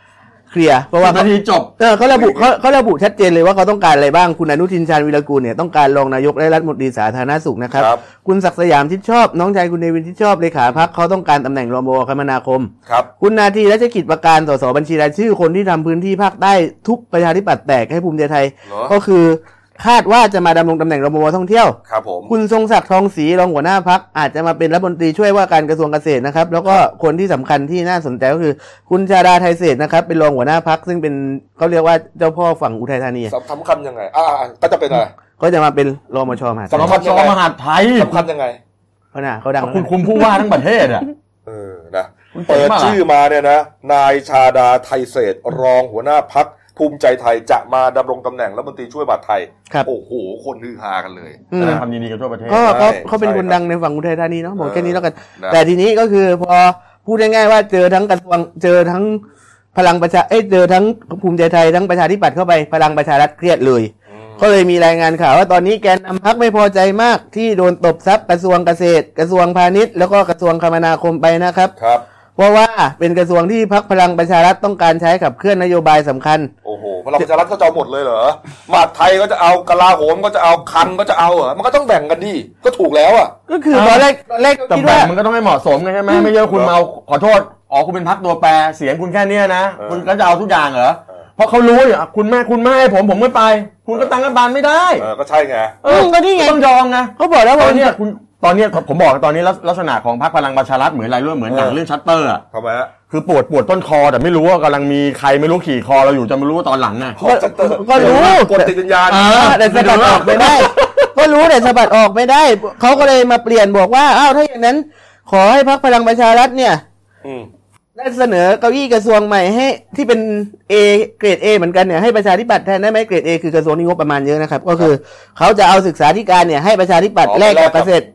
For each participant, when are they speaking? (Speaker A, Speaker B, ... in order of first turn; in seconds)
Speaker A: 0.5-21.8, 22.3-33.3, 35.4-36.9, 39.1-39.9, 51.5-51.8, 52.5-59.2, 59.7-71.7, 72.4-76.5, 83.5-85.1, 95.8-96.6, 97.2-98.0, 107.2-116.8, 118.0-128.1
Speaker B: 1.0-1.7, 36.7-38.2, 39.6-41.1, 42.3-43.0, 51.6-52.9, 83.7-84.1, 84.7-95.1, 95.8-102.4, 103.1-107.2, 108.0-108.4, 109.1-111.1
Speaker C: 2.1-2.5, 7.7-8.0, 18.6-18.9, 21.9-22.3, 33.3-35.1, 36.7-37.4, 37.9-38.6, 41.5-51.8, 52.6-53.6, 54.6-55.6, 64.1-64.5, 71.8-72.0, 76.6-83.3, 86.5-86.8, 89.8-90.1, 95.0-95.8, 101.5-101.8, 102.5-102.9, 107.2-110.2, 117.2-117.5, 127.2-127.9